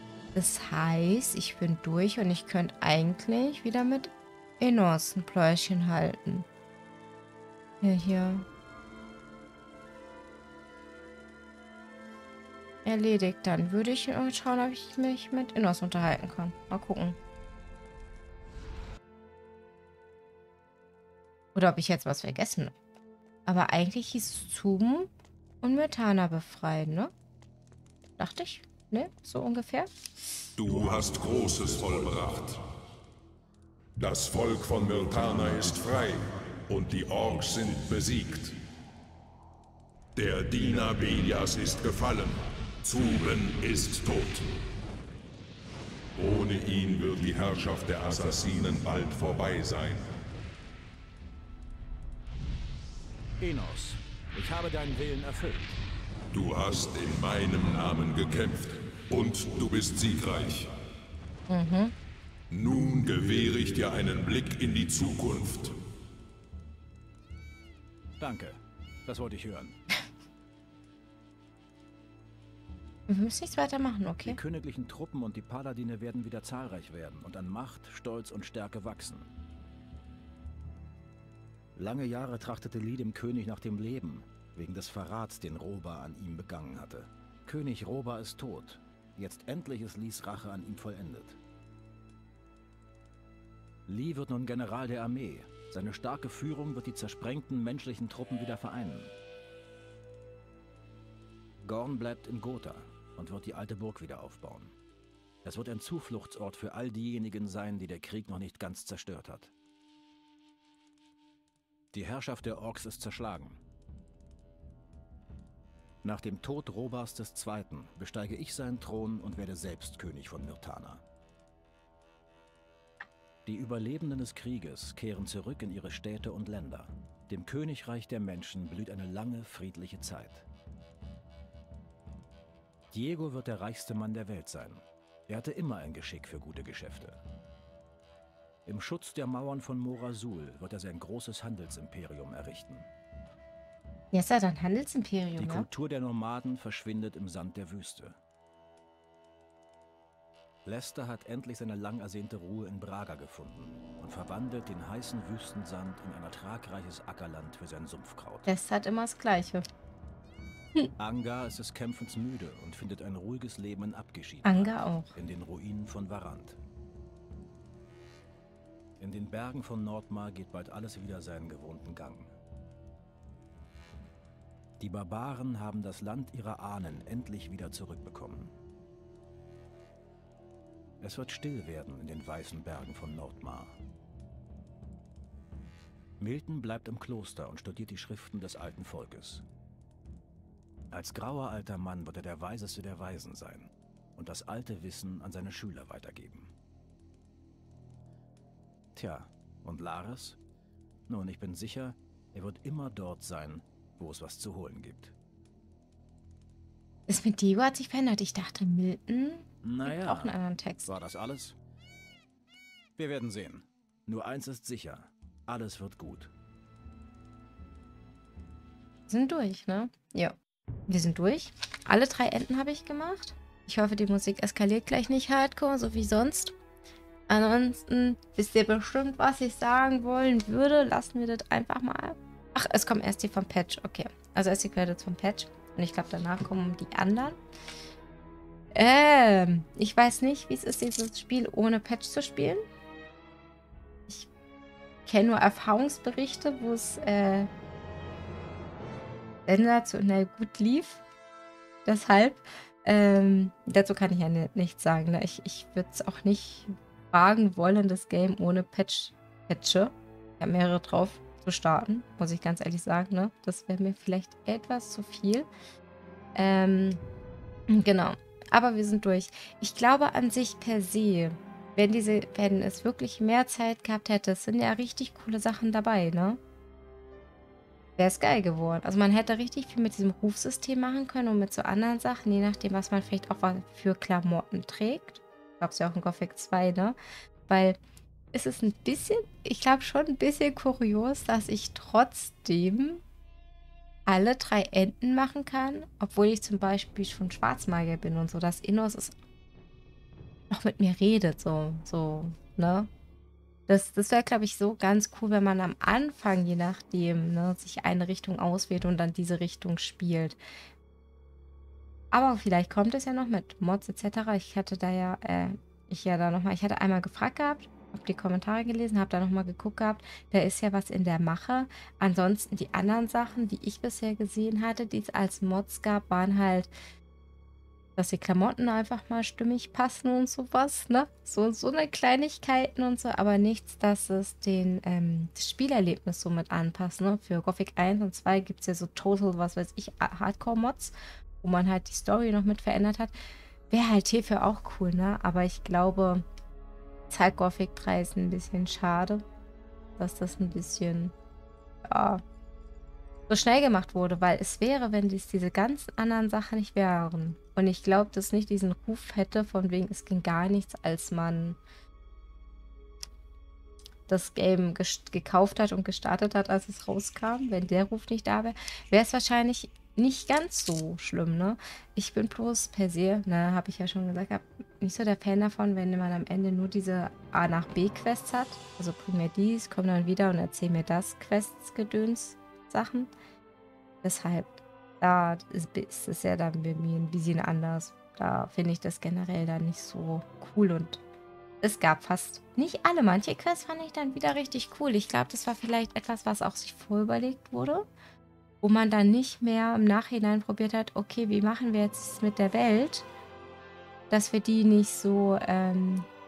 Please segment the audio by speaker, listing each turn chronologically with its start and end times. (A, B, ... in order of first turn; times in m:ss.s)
0:00.3-0:06.5 A
0:07.8-0:08.4 A
0:12.8-0:17.2 A
0:21.6-0:22.7 A
0:23.4-0:25.1 A
0:25.6-0:27.1 A
0:28.2-0:29.9 A
0:30.6-0:32.6 B
0:34.0-0:38.6 B
0:40.1-0:44.5 B
0:46.2-0:50.1 B
0:53.4-0:55.7 C
0:56.3-1:00.7 B
1:01.5-1:01.9 A
1:02.5-1:05.8 B
1:08.2-1:09.8 C
1:13.1-1:14.4 A
1:14.2-1:19.3 C
1:21.8-1:31.4 C
1:33.9-1:39.1 C
1:41.6-1:44.8 C
1:45.4-1:49.5 C
1:51.9-1:53.6 C
1:56.0-2:01.0 C
2:03.4-2:10.5 C
2:12.9-2:17.2 C
2:18.6-2:22.9 C
2:24.1-2:25.7 A
2:25.4-2:28.2 C
2:30.6-2:38.5 C
2:38.4-2:39.6 A
2:41.0-2:46.6 C
2:44.4-2:45.2 A
2:49.0-2:52.3 C
2:54.8-2:58.6 C
3:01.0-3:03.8 C
3:06.2-3:09.4 C
3:10.9-3:16.5 C
3:19.0-3:20.4 C
3:21.1-3:25.1 C
3:27.1-3:31.0 A
3:29.6-3:31.6 C
3:33.0-3:36.3 C
3:39.1-3:40.4 A
3:40.9-3:46.6 A
3:47.3-3:57.4 A
3:58.7-4:02.6 A
4:05.1-4:07.5 A
4:09.4-4:11.0 A
4:11.8-4:25.5 A
4:26.4-4:27.0 A
4:27.7-4:36.4 A
4:38.0-4:47.0 A
4:47.5-4:47.8 A
4:48.3-4:53.0 A
4:54.1-4:59.1 A
5:00.5-5:02.9 A
5:03.7-5:10.4 A
5:12.1-5:26.7 A
5:28.0-5:43.1 A
5:43.7-5:46.2 A
5:47.1-5:49.2 A
5:50.0-5:51.1 A
5:51.8-5:52.2 A
5:53.3-6:01.6 A
6:04.1-6:23.1 A
6:24.0-6:31.0 A
6:31.6-6:37.9 A
6:38.6-6:43.1 A
6:44.1-6:46.1 A